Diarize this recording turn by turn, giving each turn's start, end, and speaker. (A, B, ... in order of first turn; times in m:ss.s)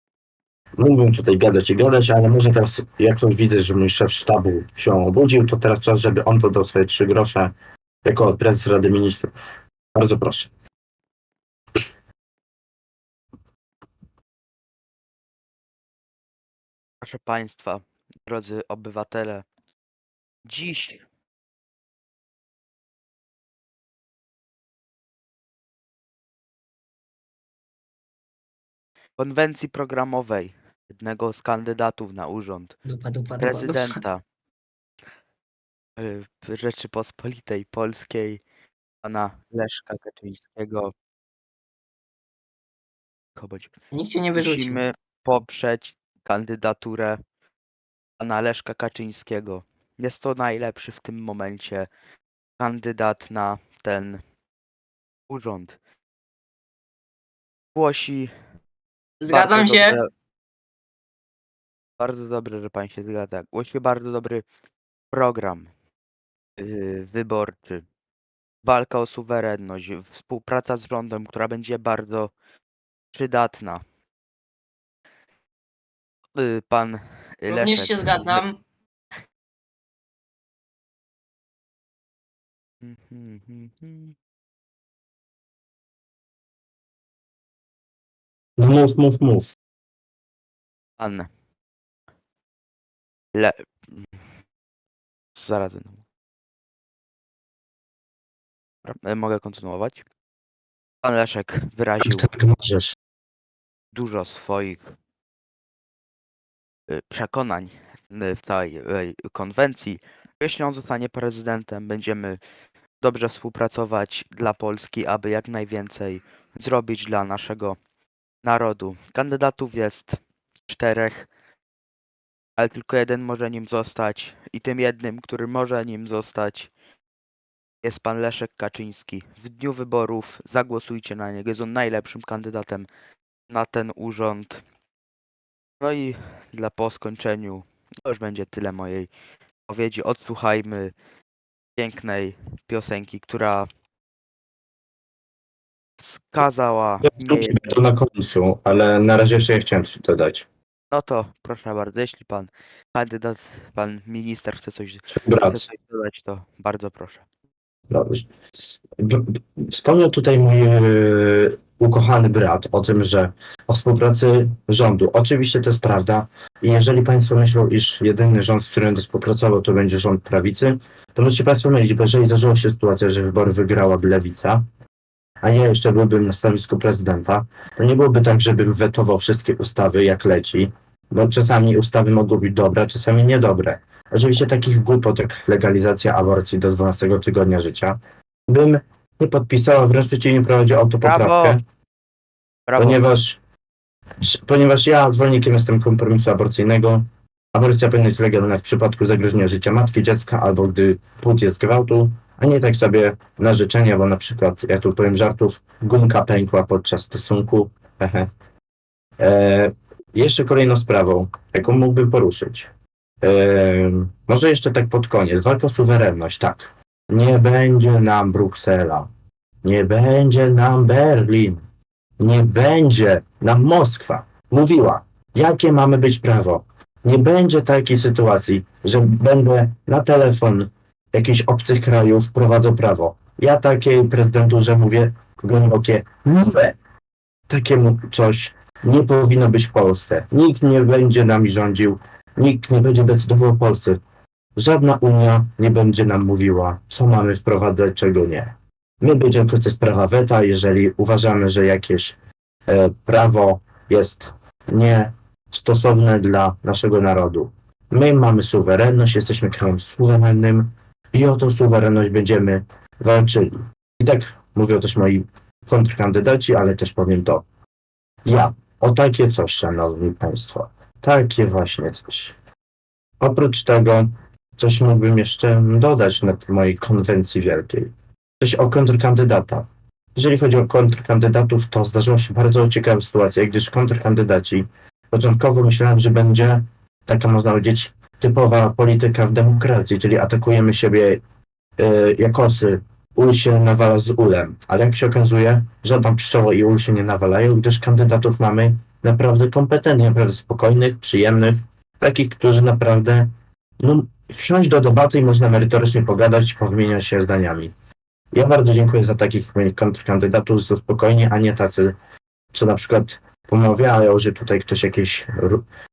0:00.8-0:09.4 A
0:09.9-0:10.5 A
0:17.0-0:19.5 B
0:20.4-0:21.0 B
0:29.2-0:32.8 B
0:32.9-0:34.0 C
0:33.4-0:34.2 B
0:36.0-0:38.4 B
0:39.0-0:40.9 B
0:43.4-0:43.8 B
0:43.9-0:44.8 C
0:44.3-0:47.2 B
0:48.2-0:51.9 B
0:52.6-0:54.2 B
0:55.3-0:55.8 B
0:57.8-0:58.3 B
0:59.2-1:00.0 C
0:59.3-1:00.1 B
1:02.0-1:04.5 B
1:05.1-1:05.7 B
1:06.6-1:07.8 B
1:08.6-1:12.3 B
1:13.1-1:13.8 B
1:16.3-1:18.4 B
1:17.5-1:18.6 C
1:22.8-1:24.2 B
1:28.6-1:29.5 A
1:31.0-1:31.3 B
1:33.3-1:34.2 B
1:35.4-1:36.0 B
1:38.8-1:40.0 B
1:41.0-1:42.3 B
1:42.0-1:43.0 A
1:43.9-1:44.9 B
1:46.9-1:52.4 B
1:53.0-1:57.8 B
1:58.4-2:01.3 B
2:02.6-2:06.7 B
2:07.8-2:12.9 B
2:13.5-2:14.6 B
2:15.8-2:19.1 B
2:19.7-2:20.9 B
2:21.8-2:23.7 B
2:26.0-2:27.8 B
2:27.0-2:30.5 A
2:30.9-2:37.2 B
2:35.1-2:35.6 A
2:37.9-2:38.3 A
2:39.0-2:54.6 A
2:55.4-3:11.6 A
3:11.0-3:11.6 B
3:12.7-3:13.0 B
3:12.8-3:13.4 A
3:14.2-3:28.3 A
3:29.2-3:32.7 A
3:33.2-3:39.1 A
3:39.6-3:41.6 A
3:42.2-3:56.8 A
3:57.5-4:04.0 A
4:04.6-4:12.2 A
4:12.7-4:27.4 A
4:28.2-4:32.4 A
4:33.2-4:51.2 A
4:51.8-5:07.7 A
5:08.3-5:12.0 A
5:12.5-5:15.6 A